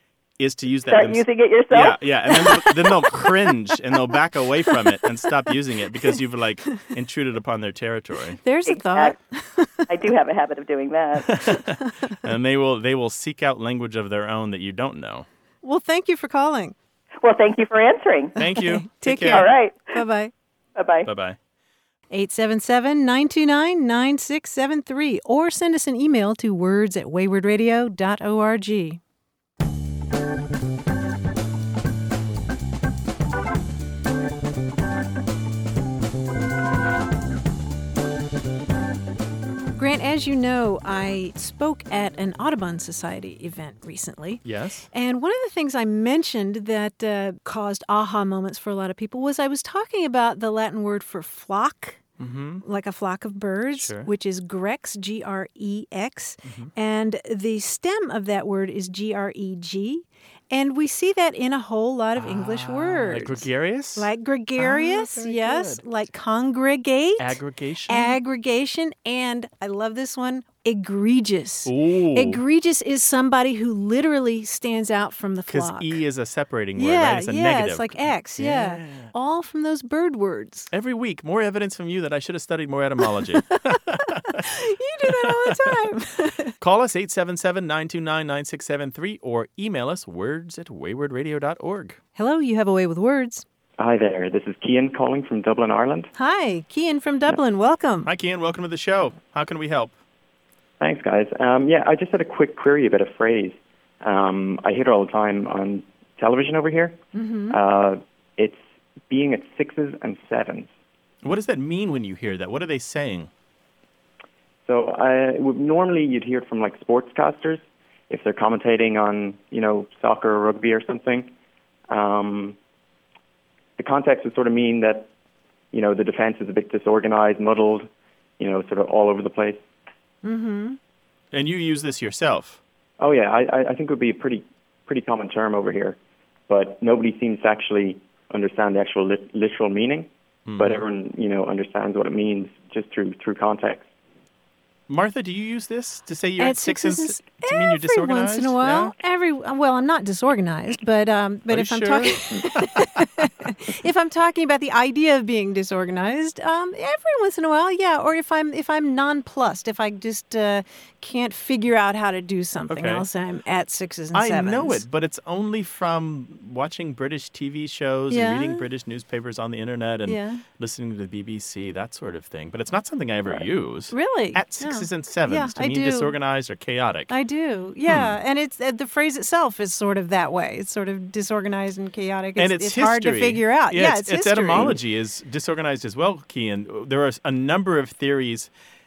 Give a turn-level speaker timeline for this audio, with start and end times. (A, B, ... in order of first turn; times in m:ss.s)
0:00.4-0:08.4 A
0:00.9-0:02.0 B
0:08.4-0:09.8 C
0:08.7-0:09.1 B
0:09.9-0:11.3 B
0:11.2-0:15.2 A
0:15.6-0:16.7 C
0:17.2-0:18.3 B
0:18.4-0:19.5 A
0:18.4-0:20.3 C
0:19.4-0:19.9 B
0:20.8-0:21.1 B
0:21.0-0:21.4 A
0:22.1-0:29.0 C
0:39.8-0:52.0 C
0:44.4-0:44.9 A
0:52.2-0:52.6 A
0:52.6-1:16.0 C
0:53.8-0:54.1 A
0:56.4-0:56.7 A
1:02.2-1:05.8 A
1:07.2-1:08.2 A
1:11.6-1:12.4 A
1:15.5-1:19.1 A
1:16.8-1:20.7 C
1:20.7-1:24.4 A
1:24.3-1:26.5 C
1:25.1-1:25.6 A
1:26.6-1:32.0 A
1:32.2-1:33.4 C
1:33.8-1:36.1 D
1:36.1-1:38.1 C
1:38.0-1:39.9 A
1:40.8-1:50.7 D
1:47.1-1:47.6 C
1:51.2-1:53.3 A
1:54.6-2:01.3 D
2:01.9-2:02.6 D
2:03.8-2:05.1 D
2:05.7-2:07.9 D
2:08.4-2:09.6 D
2:10.2-2:10.8 C
2:11.3-2:12.6 A
2:13.0-2:16.0 D
2:16.5-2:23.8 D
2:20.4-2:20.8 A
2:24.9-2:28.9 A
2:26.4-2:44.8 C
2:31.5-2:32.8 A
2:42.7-2:43.0 A
2:44.1-2:57.1 A
2:48.1-2:48.6 C
2:50.1-2:50.4 C
2:53.3-2:56.1 C
2:57.1-3:04.8 C
2:57.9-2:58.2 A
3:02.4-3:08.5 A